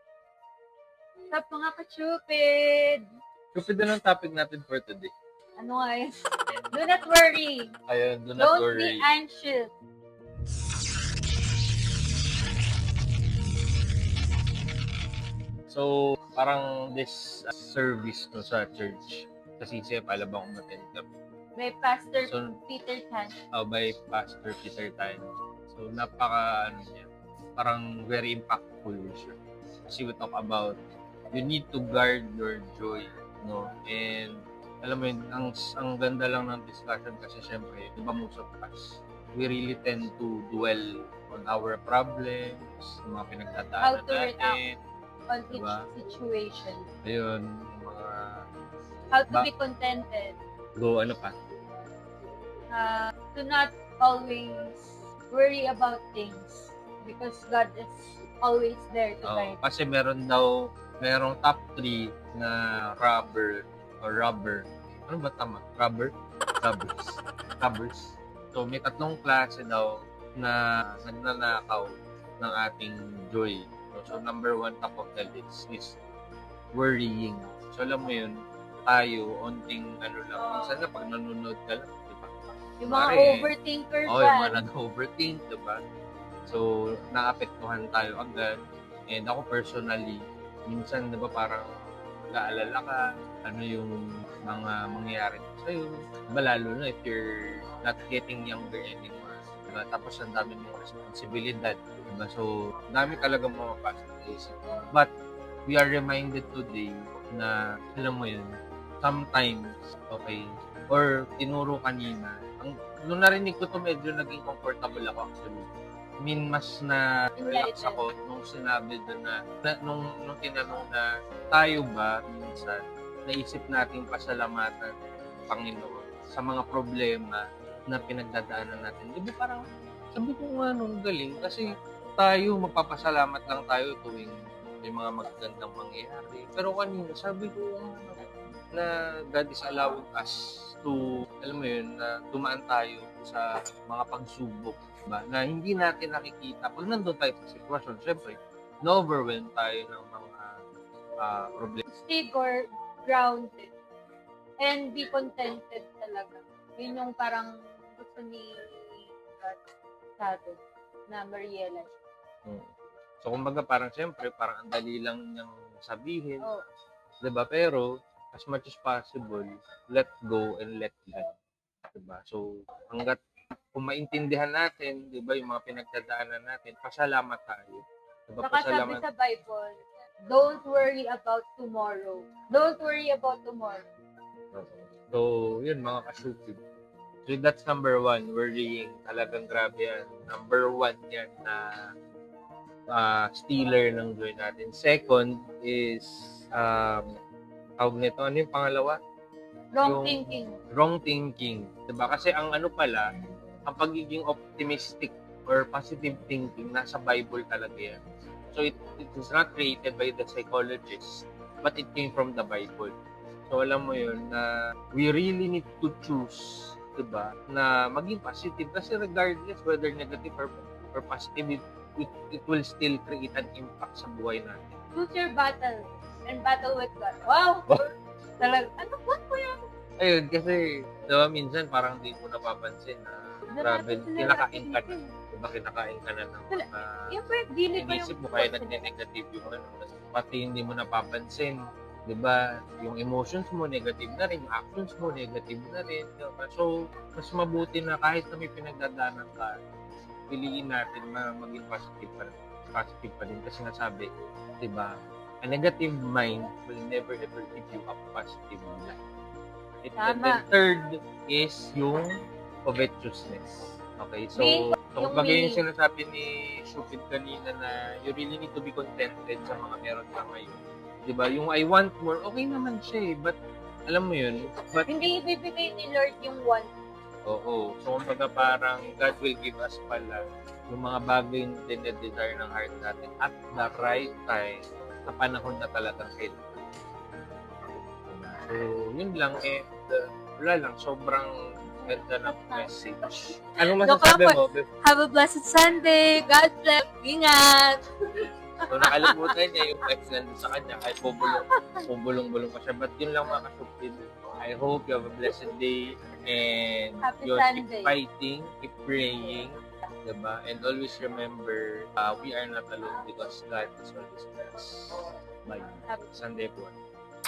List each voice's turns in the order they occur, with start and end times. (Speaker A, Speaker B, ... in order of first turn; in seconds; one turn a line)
Speaker A: 1.3-3.1
Speaker B: 3.5-5.1
Speaker A: 5.6-7.7
Speaker B: 7.9-9.1
Speaker A: 8.4-9.7
Speaker B: 15.7-21.1
Speaker A: 21.6-23.4
Speaker B: 22.3-22.6
Speaker B: 23.6-29.3
Speaker B: 29.9-30.7
Speaker B: 31.3-38.8
Speaker B: 39.4-44.8
Speaker A: 43.8-44.6
Speaker A: 45.3-46.9
Speaker B: 45.5-45.9
Speaker B: 47.0-48.4
Speaker A: 49.1-50.4
Speaker B: 50.8-51.3
Speaker A: 52.7-59.6
Speaker B: 59.2-60.5
Speaker B: 61.0-66.1
Speaker B: 66.6-71.9
Speaker B: 72.4-76.0
Speaker B: 76.7-78.3
Speaker B: 78.9-82.3
Speaker A: 82.8-84.6
Speaker B: 82.9-83.5
Speaker B: 84.1-85.8
Speaker B: 86.5-88.5
Speaker B: 89.1-91.7
Speaker B: 92.3-105.1
Speaker B: 105.7-115.7
Speaker B: 116.2-124.9
Speaker A: 117.4-118.0
Speaker B: 125.5-129.6
Speaker B: 130.1-150.5
Speaker B: 151.2-151.8
Speaker A: 151.9-153.7
Speaker A: 154.6-159.6
Speaker A: 160.2-161.9
Speaker B: 163.2-166.5
Speaker B: 167.2-171.3
Speaker B: 171.9-173.2
Speaker B: 173.8-179.0
Speaker A: 178.4-183.9
Speaker B: 184.5-186.6
Speaker B: 187.3-191.7
Speaker B: 192.9-197.1
Speaker B: 197.8-199.0
Speaker A: 199.7-200.6
Speaker B: 199.8-200.2
Speaker B: 200.7-203.0
Speaker B: 203.7-208.0
Speaker B: 208.5-212.9
Speaker B: 213.5-224.8
Speaker A: 224.9-227.9
Speaker A: 228.4-229.6
Speaker B: 230.0-237.1
Speaker A: 233.5-235.1
Speaker A: 236.5-238.8
Speaker B: 237.8-241.6
Speaker B: 242.1-249.5
Speaker B: 250.3-254.1
Speaker B: 254.6-254.9
Speaker B: 255.4-259.0
Speaker B: 259.8-262.1
Speaker A: 260.0-260.4
Speaker B: 262.7-273.4
Speaker A: 264.4-265.6
Speaker B: 273.9-275.0
Speaker A: 274.9-276.7
Speaker B: 277.3-280.2
Speaker B: 280.7-286.6
Speaker B: 288.1-291.3
Speaker A: 291.8-292.7
Speaker B: 291.9-294.7
Speaker A: 293.8-297.8
Speaker B: 298.7-309.5
Speaker A: 298.8-299.2
Speaker A: 307.0-307.9
Speaker B: 310.1-316.8